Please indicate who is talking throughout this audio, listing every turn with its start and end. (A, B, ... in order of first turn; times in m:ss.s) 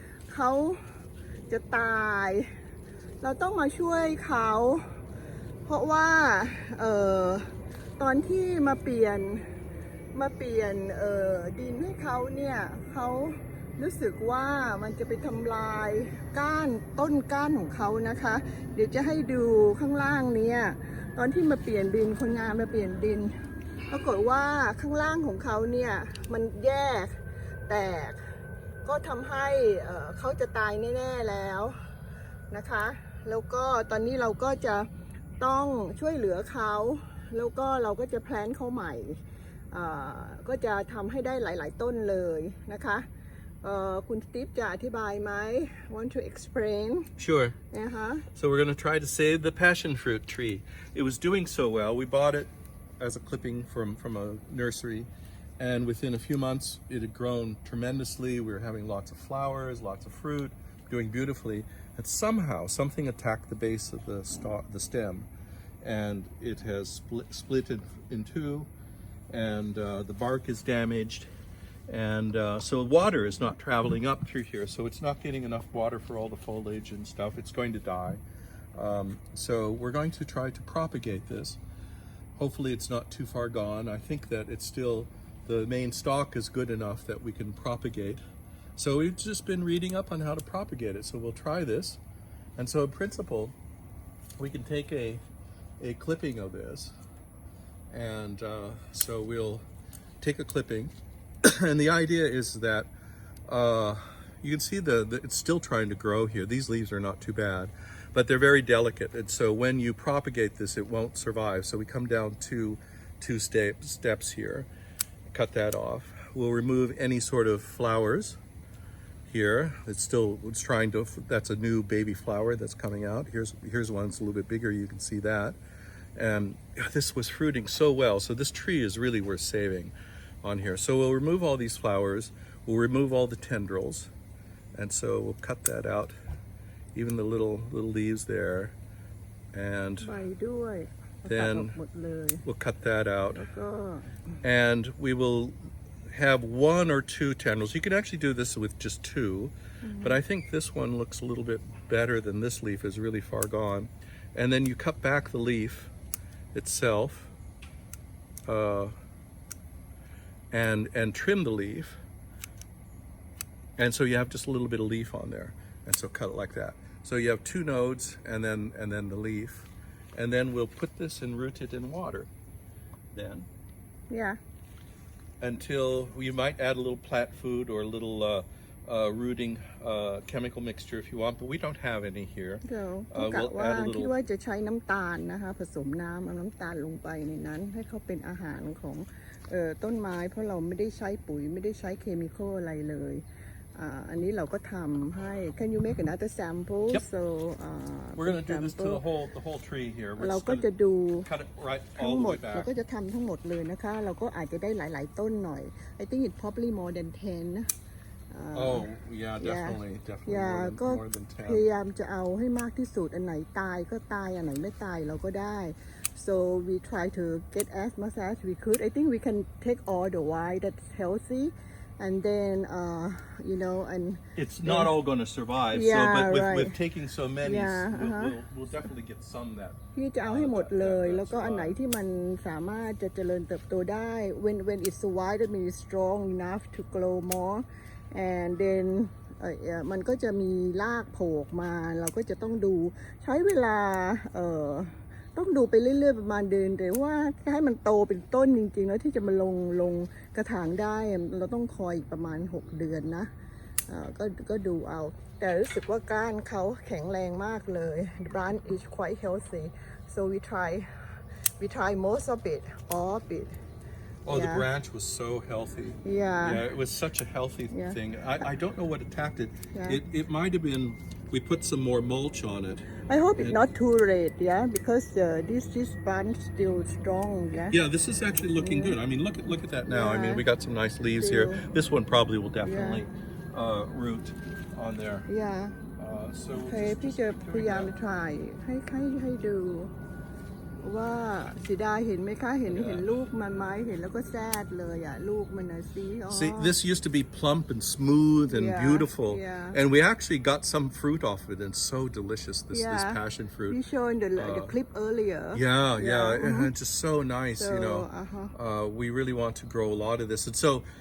0:00.3-0:00.8 A
0:01.5-0:02.5 A
0:03.2-0:04.9 A
0:05.6-0:07.5 A
0:08.0-0:09.4 A
0:10.1-0:23.3 A
0:23.9-0:28.2 A
0:28.8-0:31.8 A
0:32.5-0:34.9 A
0:35.4-0:43.0 A
0:43.6-0:47.1 A
0:47.2-0:47.6 B
0:47.7-0:48.3 A
0:48.3-1:05.3 B
1:05.8-1:08.7 B
1:09.3-1:11.3 B
1:11.9-1:18.2 B
1:18.8-1:21.6 B
1:22.4-1:28.2 B
1:28.8-1:32.0 B
1:32.6-1:33.6 B
1:34.4-1:35.2 B
1:35.8-1:36.9 B
1:37.9-1:39.6 B
1:40.2-1:40.9 B
1:41.4-1:42.9 B
1:43.5-1:54.7 B
1:55.3-1:58.4 B
1:59.3-2:05.6 B
2:06.2-2:14.1 B
2:14.7-2:16.1 B
2:16.9-2:18.7 B
2:19.5-2:20.1 B
2:20.0-2:22.4 A
2:21.3-2:21.8 B
2:22.4-2:23.4 B
2:23.3-2:24.3 A
2:24.4-2:25.6 B
2:26.1-2:35.9 B
2:29.8-2:30.2 A
2:36.5-2:37.3 B
2:38.4-2:38.9 B
2:40.5-2:42.0 B
2:43.8-2:52.3 B
2:53.1-2:53.5 B
2:54.1-2:54.4 A
2:55.4-3:04.1 B
3:02.6-3:13.2 A
3:13.7-3:19.0 A
3:18.2-3:20.7 B
3:20.2-3:21.3 A
3:21.2-3:22.7 B
3:22.0-3:27.7 A
3:28.3-3:28.9 A
3:28.5-3:31.6 B
3:29.4-3:44.9 A
3:44.4-3:51.8 B
3:45.7-3:46.8 A
3:47.4-3:48.3 A
3:49.9-4:13.3 A
4:13.9-4:20.9 A
4:21.6-4:23.5 A
4:24.2-4:32.9 B
4:24.3-4:24.7 A
4:26.0-4:26.6 A
4:27.7-4:28.0 A
4:29.7-4:30.0 A
4:33.1-4:37.8 A
4:37.7-4:45.3 B
4:38.6-4:39.0 A
4:39.9-4:40.4 A
4:41.2-4:41.6 A
4:42.6-4:43.0 A
4:45.3-4:45.8 A
4:46.0-4:47.9 B
4:46.7-4:49.9 A
4:50.8-4:56.8 A
4:52.7-4:53.1 B
4:56.3-5:03.8 B
4:58.5-4:59.8 A
5:02.7-5:06.7 A
5:04.4-5:04.7 B
5:05.5-5:10.9 B
5:07.6-5:08.5 A